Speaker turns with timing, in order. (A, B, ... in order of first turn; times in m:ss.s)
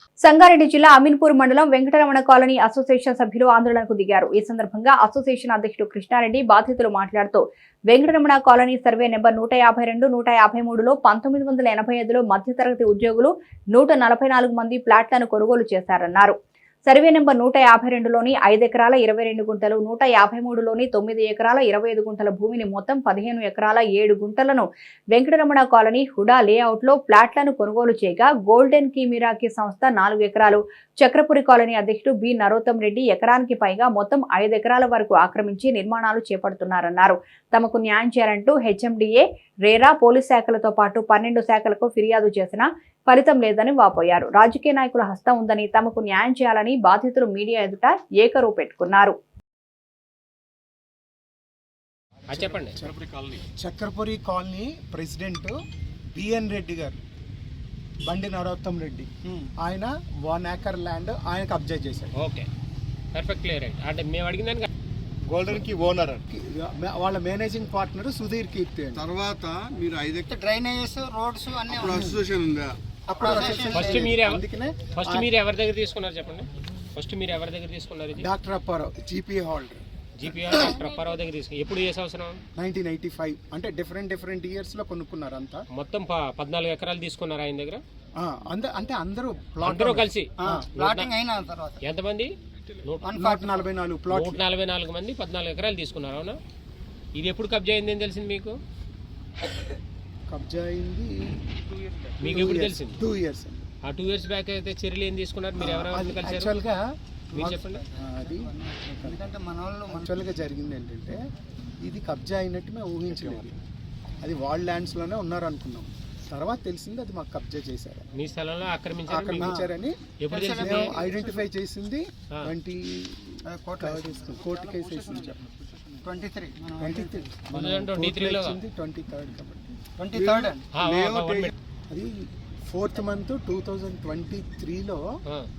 0:00.2-0:49.2 A
0:52.3-0:52.8 B
0:52.5-0:53.0 C
0:52.9-0:53.4 D
0:53.6-0:55.6 C
0:56.1-0:57.0 C
0:58.0-1:02.1 C
1:02.2-1:02.5 B
1:03.1-1:04.7 B
1:05.3-1:06.2 D
1:06.3-1:09.1 C
1:09.0-1:10.3 D
1:10.2-1:12.2 E
1:11.7-1:12.8 D
1:13.1-1:15.3 C
1:13.2-1:14.1 E
1:13.7-1:14.4 B
1:15.0-1:18.3 B
1:18.2-1:20.8 C
1:20.2-1:22.4 B
1:22.6-1:25.6 C
1:25.8-1:27.8 B
1:28.2-1:30.6 C
1:29.6-1:31.1 B
1:30.4-1:31.8 E
1:31.8-1:32.3 B
1:32.8-1:33.1 B
1:33.0-1:33.7 E
1:33.2-1:34.4 C
1:34.1-1:36.4 B
1:37.2-1:38.6 B
1:40.3-1:41.5 C
1:42.2-1:43.0 B
1:42.2-1:43.7 C
1:43.8-1:46.6 B
1:45.6-1:49.3 C
1:47.3-1:47.8 B
1:48.0-1:48.4 E
1:49.0-1:50.1 E
1:49.9-1:51.2 C
1:51.8-1:53.6 C
1:54.2-1:58.1 C
1:58.2-2:01.0 B
1:59.1-2:05.5 C
2:00.3-2:01.3 E
2:03.5-2:04.3 E
2:06.0-2:07.1 E
2:06.8-2:09.7 C
2:07.5-2:08.6 B
2:10.0-2:10.7 E
2:10.2-2:11.5 D
2:10.7-2:11.5 B
2:11.9-2:15.1 C